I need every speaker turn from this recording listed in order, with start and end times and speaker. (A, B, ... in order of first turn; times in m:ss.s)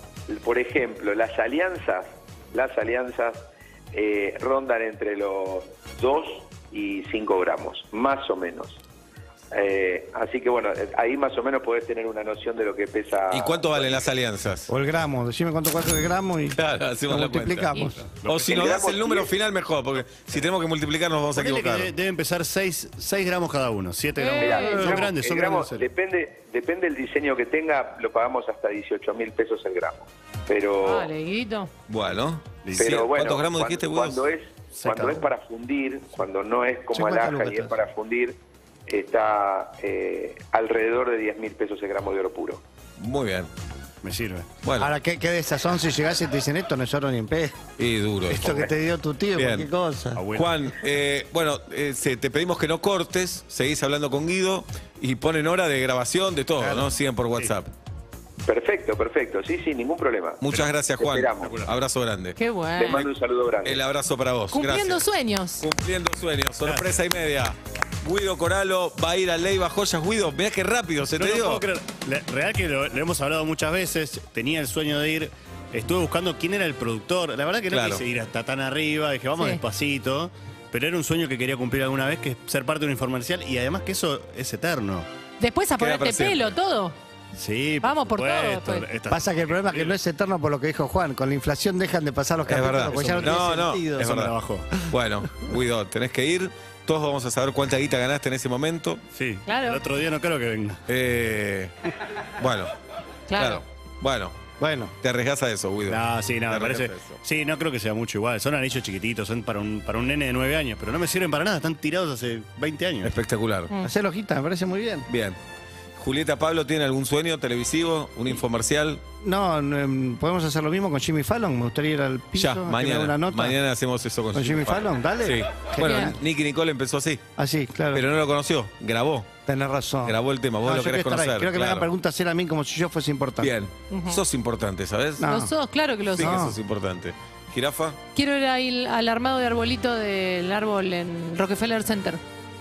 0:00.3-0:03.4 A
0:03.9-0:08.8 A
0:09.5-0:14.1 A
0:13.3-0:14.7 B
0:14.7-0:16.6 C
0:16.6-0:21.9 B
0:17.1-0:18.2 C
0:17.7-0:18.0 D
0:18.2-0:18.5 E
0:18.4-0:19.3 A
0:21.3-0:25.9 E
0:24.2-0:24.8 D
0:24.4-0:31.1 A
0:30.8-0:31.7 D
0:31.9-0:34.2 B
0:32.6-0:33.0 E
0:32.8-0:42.6 A
0:34.7-0:35.3 E
0:36.9-0:37.8 C
0:43.0-0:43.5 B
0:44.0-0:44.5 E
0:44.6-0:44.9 B
0:44.8-0:47.6 C
0:47.8-0:48.7 B
0:48.3-0:50.2 C
0:49.4-0:49.7 B
0:50.2-0:50.6 E
0:50.3-0:57.7 B
0:56.6-0:57.0 C
0:58.5-1:00.4 A
1:00.4-1:02.4 B
1:01.0-1:01.6 A
1:02.4-1:03.1 D
1:02.8-1:03.8 A
1:03.6-1:05.0 B
1:04.5-1:05.6 D
1:05.6-1:11.6 B
1:06.6-1:07.1 E
1:11.2-1:25.1 E
1:17.7-1:18.0 B
1:25.4-1:27.0 D
1:25.8-1:26.5 B
1:27.4-1:30.0 E
1:27.8-1:28.9 D
1:29.1-1:34.2 C
1:32.5-1:34.3 B
1:32.9-1:35.0 E
1:34.9-1:39.0 B
1:39.1-1:40.8 E
1:39.5-1:39.8 D
1:40.9-1:41.7 B
1:42.4-1:42.7 B
1:43.3-1:43.6 D
1:43.4-1:44.4 B
1:44.6-1:44.9 C
1:45.0-1:47.2 B
1:45.9-1:53.2 E
1:53.0-1:53.7 B
1:53.8-1:55.1 C
1:55.1-1:55.4 B
1:56.0-1:59.0 B
1:59.2-2:03.6 C
2:02.4-2:07.2 B
2:04.3-2:06.2 C
2:05.8-2:06.1 D
2:07.4-2:08.0 C
2:07.9-2:09.4 B
2:09.5-2:13.5 C
2:10.0-2:11.9 B
2:13.4-2:15.3 B
2:13.9-2:14.2 D
2:15.2-2:15.5 C
2:15.2-2:16.5 D
2:16.0-2:18.0 B
2:16.2-2:16.6 C
2:18.1-2:22.2 D